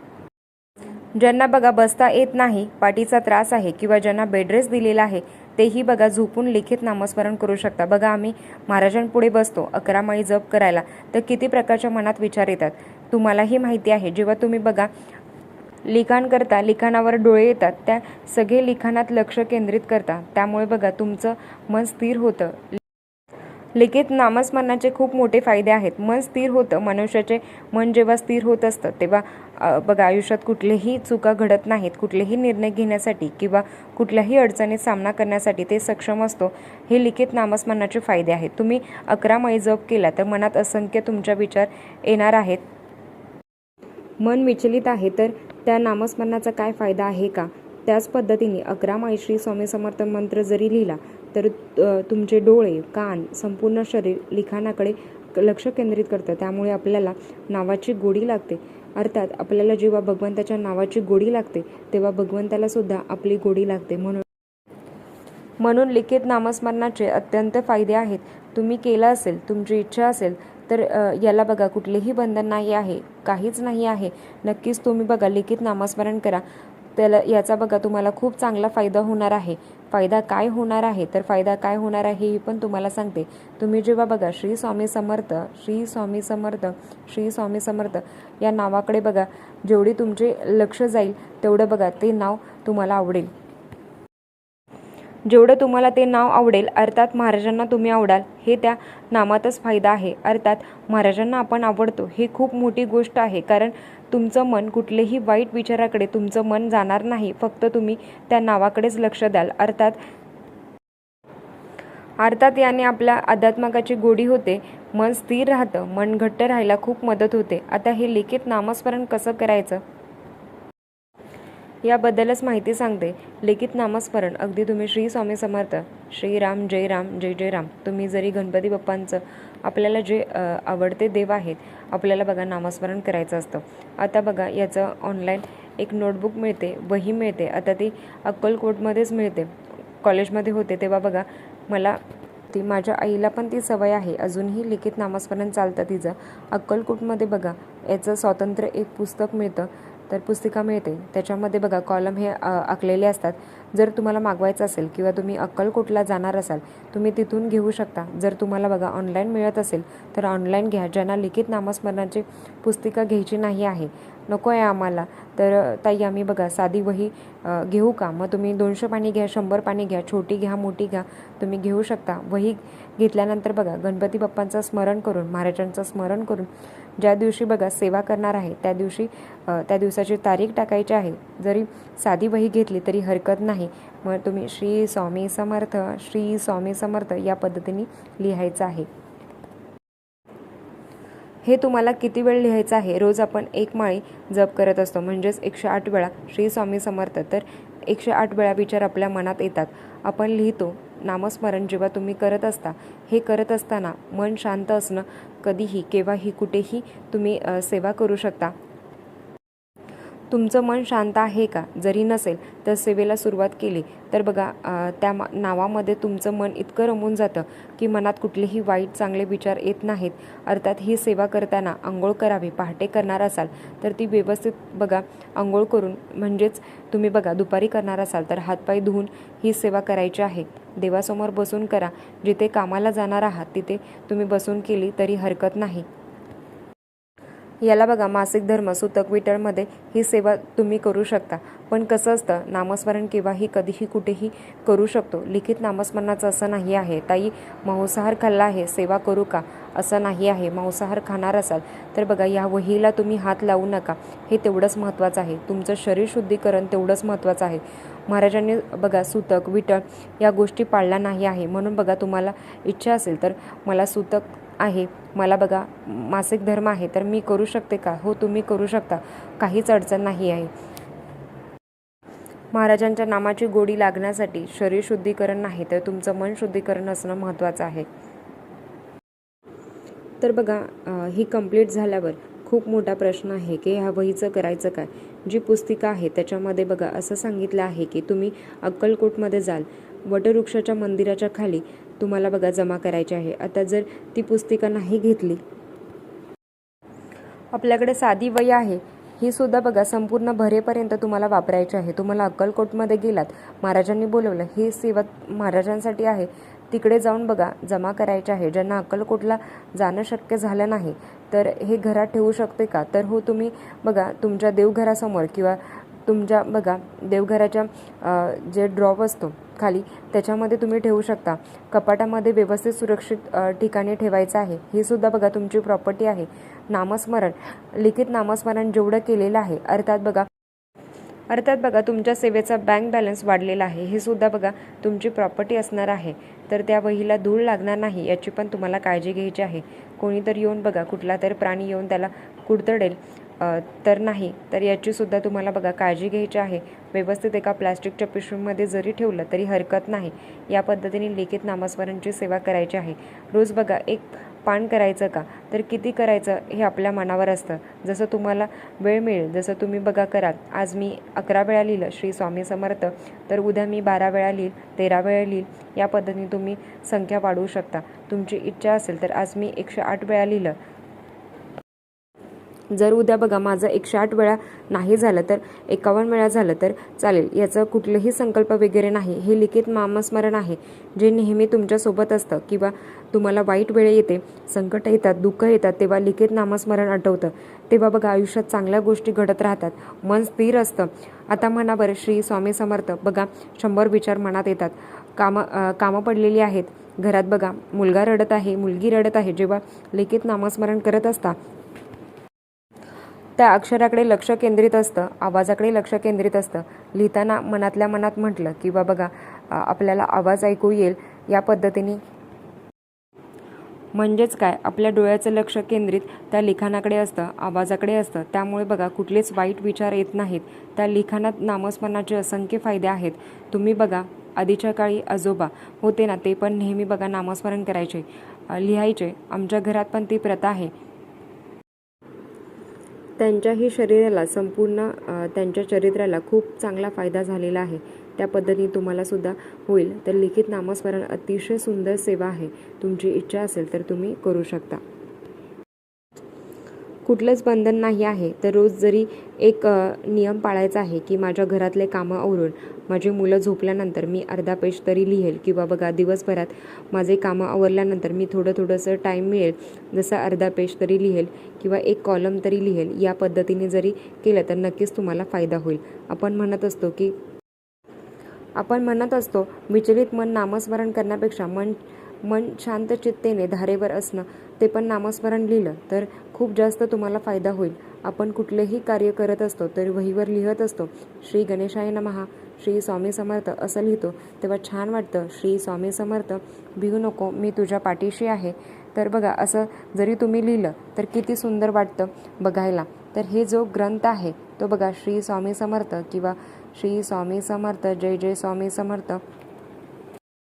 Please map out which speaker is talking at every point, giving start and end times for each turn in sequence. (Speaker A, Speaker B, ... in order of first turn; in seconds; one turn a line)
Speaker A: 1.1-14.9
Speaker A: 15.8-22.8
Speaker A: 23.7-42.6
Speaker A: 44.2-64.2
Speaker A: 65.6-76.4
Speaker A: 77.0-93.3
Speaker A: 95.2-110.0
Speaker A: 112.2-119.8
Speaker A: 121.8-188.9
Speaker A: 191.4-208.5
Speaker A: 210.3-235.9
Speaker A: 237.6-270.5
Speaker A: 272.5-277.9
Speaker A: 280.2-295.4
Speaker A: 297.5-330.3
Speaker A: 331.3-370.6
Speaker A: 372.7-401.4
Speaker A: 403.4-412.0
Speaker A: 413.9-430.7
Speaker A: 433.2-444.8
Speaker A: 447.1-467.1
Speaker A: 468.6-499.2